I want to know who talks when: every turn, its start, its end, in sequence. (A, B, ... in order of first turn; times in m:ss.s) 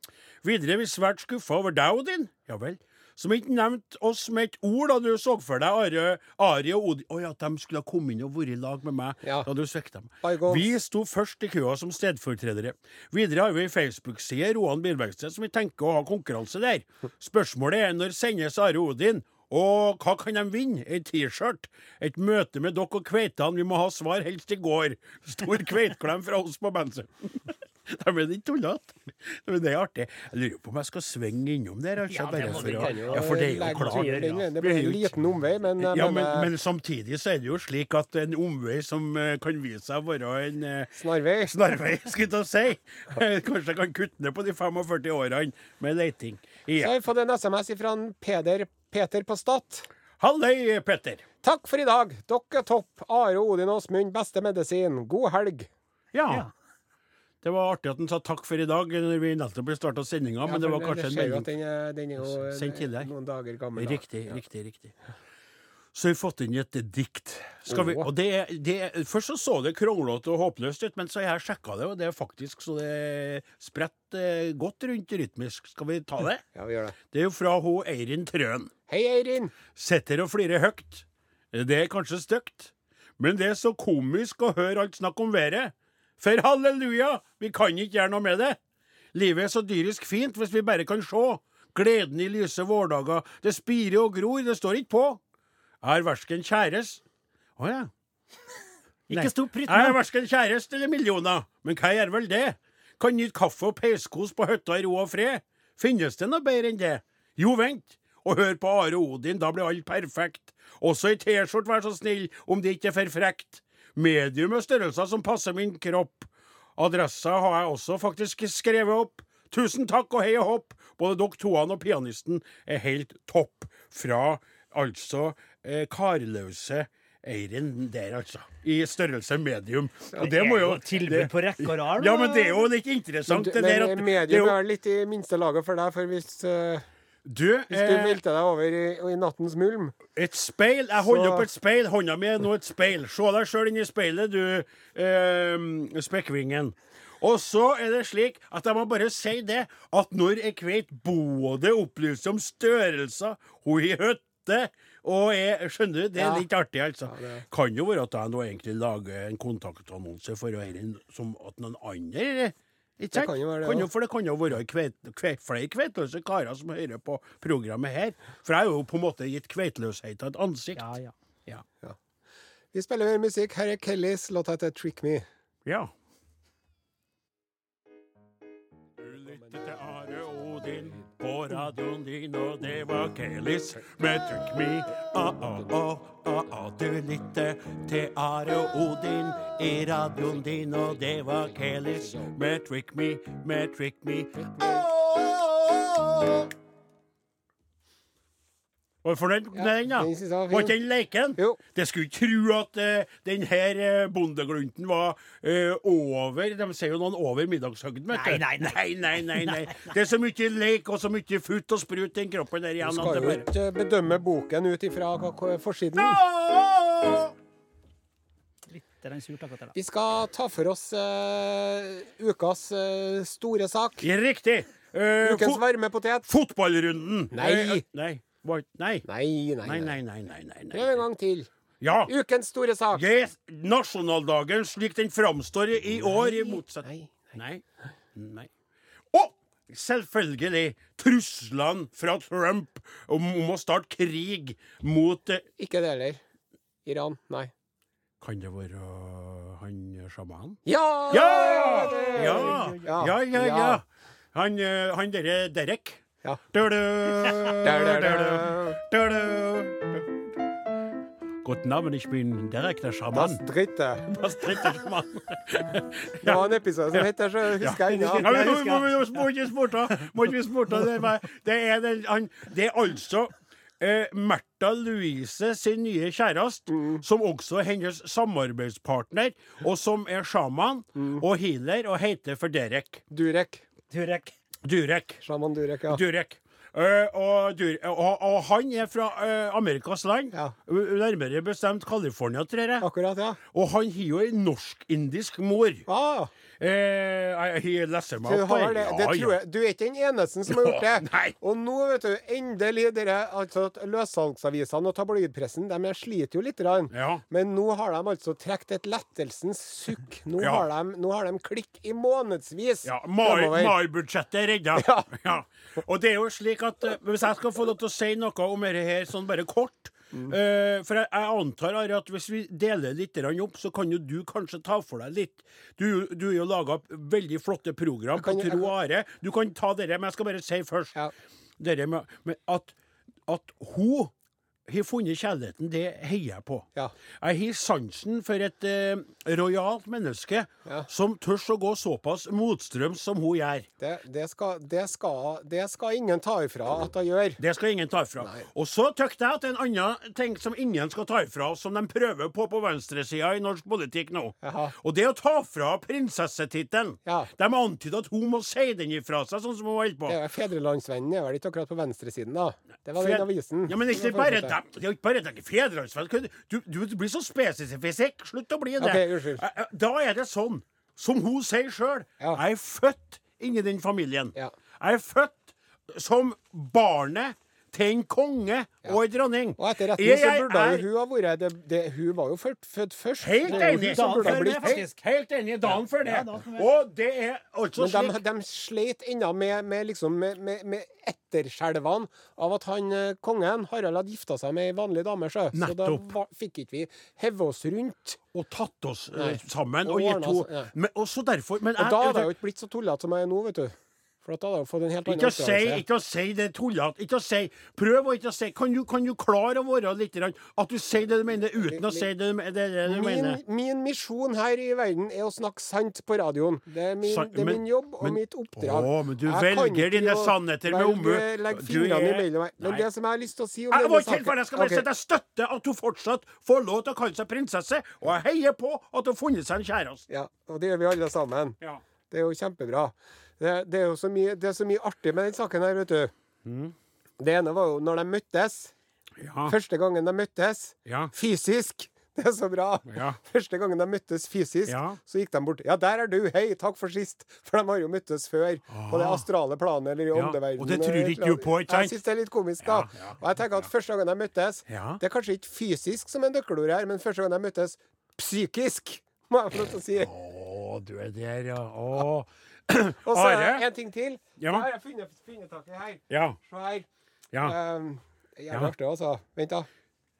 0:00.4-0:35.1 A
0:10.2-0:10.7 B
0:32.1-0:34.5 C
0:32.3-0:36.5 B
0:35.8-0:46.9 A
0:41.0-0:41.5 B
0:46.8-0:49.9 B
0:50.2-0:51.2 A
0:51.4-0:55.7 B
0:56.1-0:56.4 A
0:57.4-1:01.5 A
1:00.4-1:04.4 B
1:02.2-1:03.1 A
1:03.8-1:04.9 A
1:05.9-1:16.4 A
1:07.7-1:08.1 B
1:16.5-1:17.0 B
1:17.1-1:18.7 A
1:18.9-1:19.5 B
1:19.7-1:28.6 A
1:29.1-1:35.2 A
1:35.8-1:37.0 A
1:37.6-1:37.9 A
1:39.1-1:40.0 C
1:39.1-2:14.6 A
2:10.2-2:12.7 C
2:13.3-2:16.8 B
2:17.2-2:18.2 A
2:17.7-2:20.0 B
2:20.1-2:50.9 A
2:21.0-2:21.5 B
2:36.2-2:36.4 B
2:37.1-2:37.4 B
2:43.1-2:43.9 B
2:50.8-2:51.1 C
2:52.7-2:55.2 B
2:55.6-2:55.9 A
2:59.0-3:16.5 A
3:11.2-3:12.3 B
3:14.4-3:14.9 B
3:19.0-3:33.5 A
3:19.5-3:20.8 B
3:28.1-3:29.9 C
3:32.8-3:36.2 B
3:35.9-3:37.3 A
3:38.7-3:39.7 C
3:39.7-3:44.1 B
3:44.0-3:45.6 A
3:45.2-3:46.3 B
3:46.3-3:49.0 A
3:47.3-3:47.8 B
3:49.1-3:50.0 B
3:49.6-3:51.0 A
3:50.7-3:51.5 B
3:51.8-3:52.1 A
3:52.0-3:53.0 B
3:52.9-3:57.6 A
3:55.9-3:57.4 B
3:58.1-3:58.5 A
3:59.1-4:05.4 A
4:05.6-4:06.2 B
4:06.8-4:07.5 B
4:08.2-4:20.1 A
4:10.6-4:13.8 B
4:12.1-4:12.8 C
4:17.2-4:18.8 B
4:21.4-4:23.4 A
4:23.1-4:24.1 B
4:24.0-4:27.0 A
4:26.2-4:28.6 B
4:27.6-4:43.0 A
4:27.9-4:29.2 C
4:36.7-4:37.0 B
4:41.0-4:41.2 B
4:43.1-4:43.6 B
4:43.9-4:44.3 C
4:44.6-4:45.2 A
4:45.2-4:46.0 B
4:45.9-4:52.9 A
4:52.8-4:53.4 B
4:53.5-4:55.8 A
4:55.9-4:56.3 B
4:56.6-4:59.4 A
4:58.2-5:13.8 B
5:00.5-5:01.4 A
5:06.9-5:07.2 A
5:10.4-5:10.6 A
5:12.8-5:30.9 A
5:14.7-5:15.1 B
5:28.2-5:28.7 B
5:31.6-5:32.7 A
5:33.3-5:34.1 A
5:34.7-5:43.7 A
5:43.8-5:47.4 B
5:47.4-6:00.2 A
5:48.2-5:48.4 B
5:54.4-5:54.7 B
5:57.0-5:57.3 B
6:00.1-6:04.6 B
6:03.0-6:20.9 A
6:08.8-6:09.4 B
6:19.6-6:24.8 B
6:23.2-6:28.2 A
6:23.5-6:25.0 C
6:25.7-6:26.7 C
6:27.8-6:38.2 B
6:35.5-6:36.1 A
6:38.3-6:42.3 A
6:39.1-6:40.7 B
6:41.8-6:45.8 B
6:45.0-6:53.4 A
6:51.6-6:52.0 B
6:52.8-7:04.8 B
6:57.0-7:02.9 A
7:03.7-7:10.0 A
7:10.1-7:11.6 B
7:12.1-7:16.1 B
7:16.4-7:16.7 A
7:17.2-7:18.7 B
7:19.2-7:19.5 A
7:19.4-7:40.1 B
7:20.8-7:21.1 A
7:22.9-7:23.2 A
7:24.7-7:25.0 A
7:28.7-7:29.2 A
7:30.1-7:31.9 A
7:32.6-7:33.6 A
7:34.7-7:35.0 A
7:39.9-7:43.6 A
7:43.0-7:46.8 B
7:44.4-7:44.6 A
7:46.1-7:46.4 A
7:47.4-7:49.7 B